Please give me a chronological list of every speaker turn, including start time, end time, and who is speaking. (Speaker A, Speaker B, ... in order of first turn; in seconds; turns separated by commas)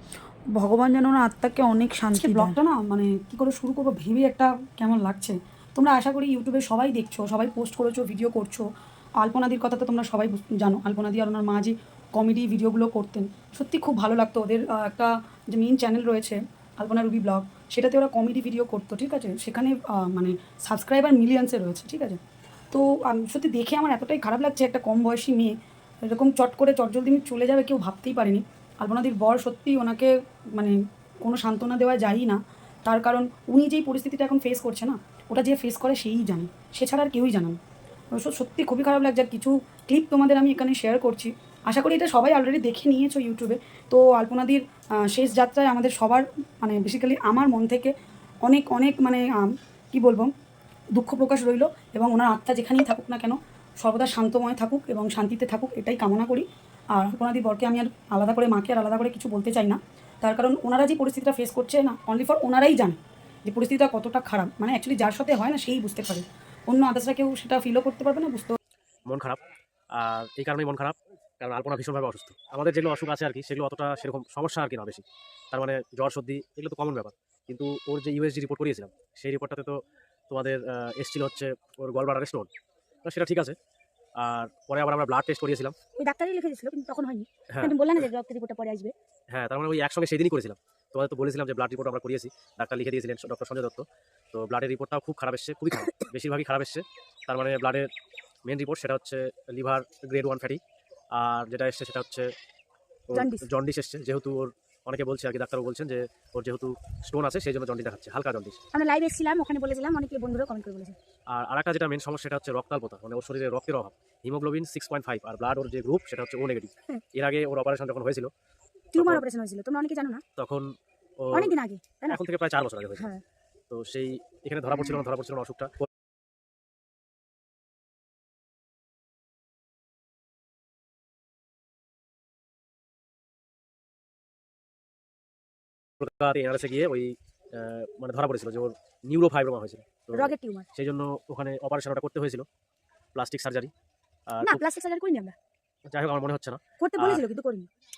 Speaker A: 0.5-2.5, Speaker B: 2.1-8.7, Speaker B: 9.2-22.2, Speaker B: 22.7-37.6, Speaker B: 38.1-47.9, Speaker B: 48.4-50.3, Speaker B: 50.9-68.5, Speaker C: 69.1-69.4, Speaker C: 69.9-79.8, Speaker C: 80.3-82.5, Speaker C: 83.0-83.5, Speaker C: 84.2-85.7, Speaker D: 86.0-88.9, Speaker C: 89.3-97.9, Speaker C: 98.5-100.6, Speaker C: 101.1-102.3, Speaker C: 103.1-108.6, Speaker D: 103.1-103.5, Speaker D: 108.7-111.0, Speaker C: 111.3-118.3, Speaker D: 118.9-120.2, Speaker C: 118.9-119.2, Speaker C: 120.4-121.5, Speaker D: 121.3-122.2, Speaker C: 122.1-123.1, Speaker D: 123.0-123.2, Speaker C: 123.7-125.7, Speaker C: 136.0-142.4, Speaker D: 140.1-140.7, Speaker C: 143.1-143.7, Speaker C: 144.3-144.6, Speaker D: 144.4-145.3, Speaker C: 145.9-147.2, Speaker D: 146.8-147.7